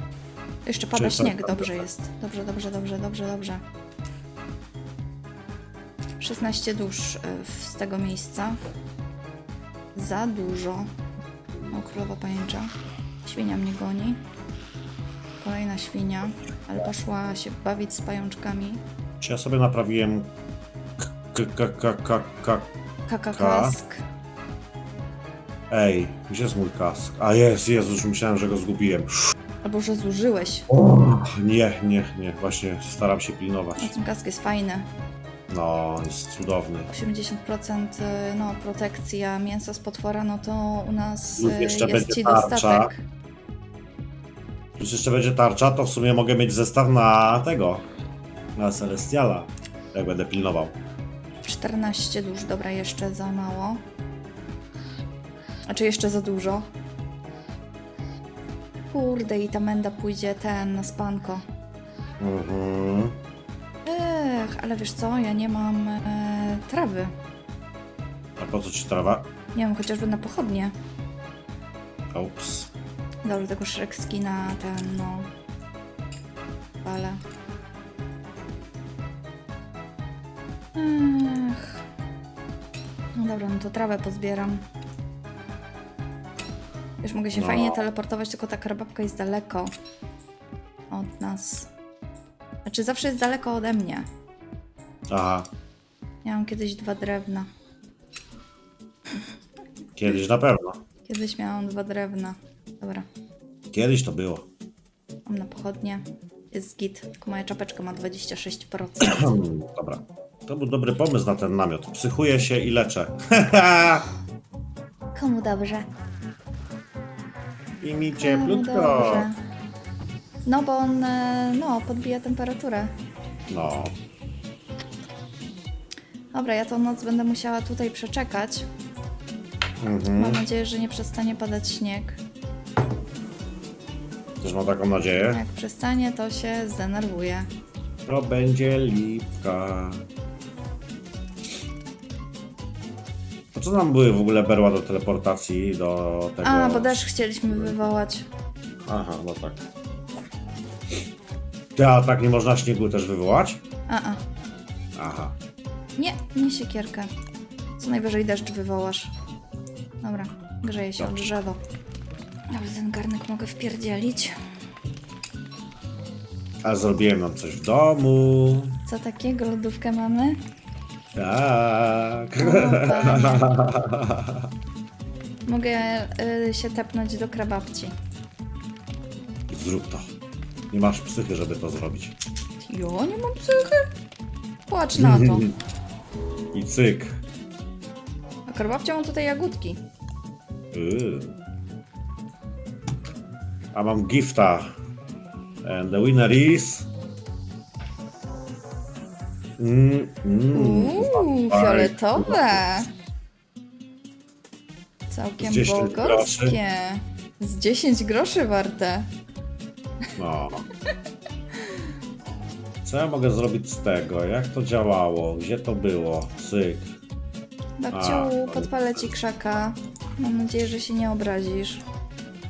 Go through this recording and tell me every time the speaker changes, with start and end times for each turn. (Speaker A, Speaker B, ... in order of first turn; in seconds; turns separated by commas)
Speaker A: 0.7-3.6, Speaker B: 0.9-1.8, Speaker A: 6.2-8.6, Speaker A: 9.9-10.9, Speaker A: 11.7-12.7, Speaker A: 13.2-14.2, Speaker A: 15.4-18.8, Speaker B: 19.2-20.3, Speaker B: 21.0-22.7, Speaker A: 23.1-24.0, Speaker B: 23.3-23.8, Speaker B: 25.7-29.3, Speaker A: 29.6-30.7, Speaker B: 30.7-33.9, Speaker A: 33.8-34.9, Speaker B: 35.5-36.9, Speaker A: 36.9-43.0, Speaker B: 41.4-42.9, Speaker B: 44.8-47.8, Speaker B: 48.5-50.7, Speaker A: 51.4-53.8, Speaker A: 55.7-56.7, Speaker A: 58.9-61.4, Speaker B: 62.2-63.2, Speaker A: 63.8-67.1, Speaker B: 68.4-69.3, Speaker A: 69.5-70.7, Speaker B: 72.1-72.7, Speaker A: 73.2-75.3, Speaker A: 76.8-77.2, Speaker A: 80.7-81.8, Speaker A: 83.2-84.6, Speaker A: 87.0-89.7, Speaker B: 87.3-87.8, Speaker A: 90.9-91.7, Speaker A: 92.6-94.1, Speaker B: 95.1-95.5, Speaker A: 96.2-97.5, Speaker B: 100.0-100.8, Speaker A: 101.1-103.1, Speaker B: 103.7-104.5, Speaker A: 105.2-109.4, Speaker B: 109.0-114.1, Speaker A: 115.1-115.9, Speaker B: 117.8-119.3, Speaker A: 118.2-119.4, Speaker A: 120.4-122.9, Speaker B: 123.5-124.0, Speaker A: 126.3-128.7, Speaker B: 129.8-130.4, Speaker A: 130.2-132.2, Speaker B: 134.4-135.4, Speaker A: 135.2-137.5, Speaker B: 138.1-140.0, Speaker B: 143.5-147.8, Speaker A: 146.4-148.3, Speaker B: 148.8-149.6, Speaker B: 151.7-153.6, Speaker A: 153.9-154.2, Speaker B: 154.9-155.3, Speaker A: 156.0-157.1, Speaker A: 157.8-159.1, Speaker A: 160.0-161.6, Speaker B: 161.0-161.2, Speaker A: 162.5-164.3, Speaker B: 166.6-168.8, Speaker A: 168.9-170.4, Speaker B: 171.1-174.5, Speaker A: 172.4-173.5, Speaker A: 175.4-177.9, Speaker B: 179.5-180.1, Speaker B: 180.7-182.2, Speaker A: 182.6-183.9, Speaker A: 184.7-185.5, Speaker B: 184.9-185.5, Speaker B: 186.5-187.2, Speaker A: 188.5-189.8, Speaker B: 190.7-191.4, Speaker B: 193.7-194.7, Speaker B: 195.6-196.9, Speaker B: 199.6-202.6, Speaker A: 200.5-202.9, Speaker A: 205.1-209.1, Speaker B: 205.4-206.6, Speaker B: 210.2-210.6, Speaker B: 212.8-216.9, Speaker A: 217.8-221.8, Speaker B: 217.9-218.7